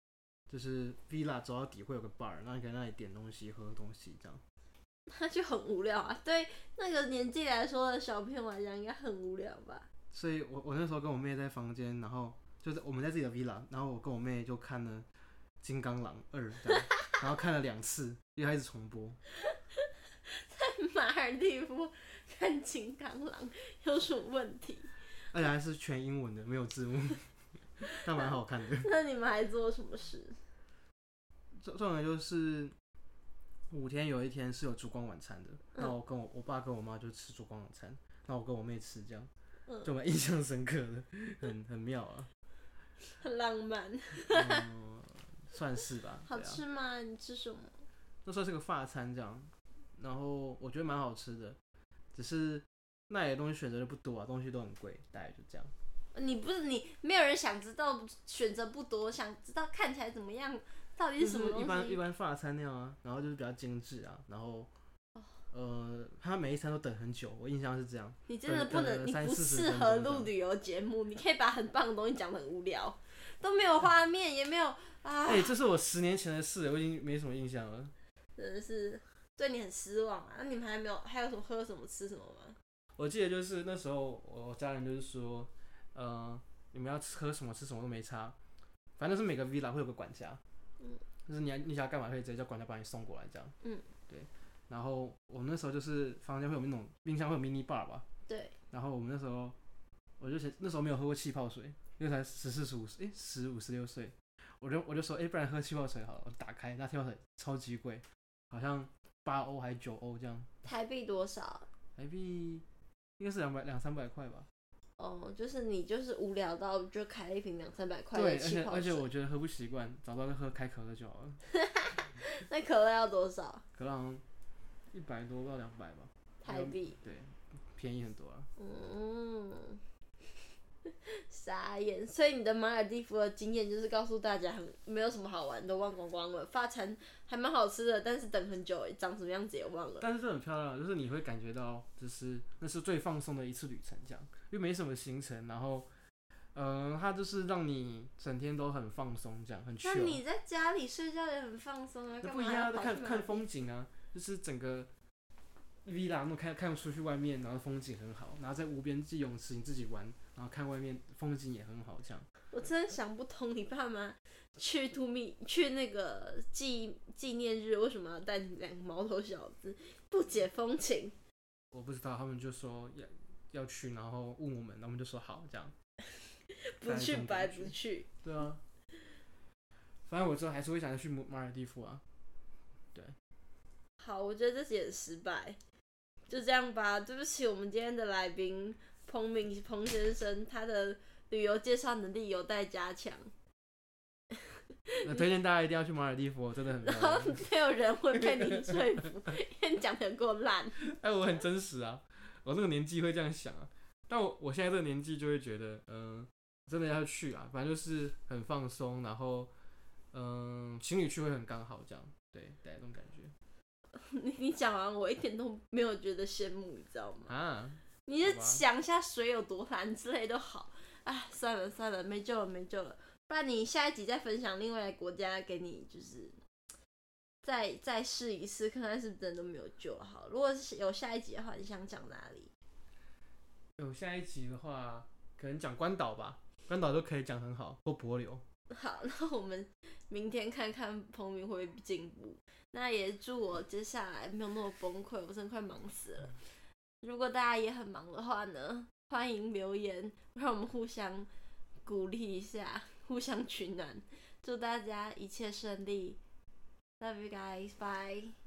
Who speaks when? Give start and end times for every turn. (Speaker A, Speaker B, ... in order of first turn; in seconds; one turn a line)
Speaker A: 0.5-4.4
Speaker B: 5.1-9.9
Speaker A: 10.1-15.1
Speaker A: 15.6-19.2
Speaker B: 20.3-25.0
Speaker A: 25.3-28.9
Speaker B: 28.8-30.4
Speaker A: 31.6-32.7
Speaker A: 33.7-39.3
Speaker B: 39.7-39.9
Speaker A: 39.8-42.3
Speaker B: 43.2-44.7
Speaker A: 44.2-46.6
Speaker B: 46.2-47.8
Speaker A: 48.2-51.6
Speaker A: 52.1-55.7
Speaker B: 56.1-62.0
Speaker A: 61.2-64.7
Speaker A: 65.5-70.3
Speaker B: 68.3-75.5
Speaker A: 75.2-77.9
Speaker B: 78.4-82.6
Speaker A: 83.0-88.4
Speaker A: 89.0-90.4
Speaker A: 91.2-93.5
Speaker A: 94.1-98.0
Speaker B: 98.3-98.5
Speaker A: 98.7-99.6
Speaker A: 100.2-110.5
Speaker B: 110.6-111.7
Speaker A: 112.0-112.6
Speaker A: 113.2-114.5
Speaker B: 115.0-119.0
Speaker A: 118.1-121.4
Speaker B: 121.5-123.6
Speaker A: 123.8-124.2
Speaker A: 124.9-128.5
Speaker B: 126.4-127.0
Speaker B: 128.6-129.8
Speaker B: 130.9-140.1
Speaker A: 140.0-145.9
Speaker A: 146.5-150.2
Speaker B: 149.8-153.4
Speaker A: 152.2-154.9
Speaker A: 155.8-162.3
Speaker B: 162.5-171.1
Speaker A: 171.7-175.7
Speaker B: 176.5-178.1
Speaker A: 176.8-178.6
Speaker A: 180.1-182.0
Speaker B: 184.0-185.6
Speaker B: 186.3-193.3
Speaker B: 194.9-195.2
Speaker A: 195.0-197.5
Speaker B: 196.8-200.8
Speaker A: 198.2-198.8
Speaker A: 200.8-209.5
Speaker A: 210.1-213.3
Speaker B: 213.9-217.3
Speaker A: 217.3-218.6
Speaker B: 218.1-226.4
Speaker B: 227.4-232.5
Speaker A: 233.8-238.4
Speaker B: 238.7-246.4
Speaker B: 247.0-251.3
Speaker B: 251.8-256.2
Speaker B: 257.0-258.4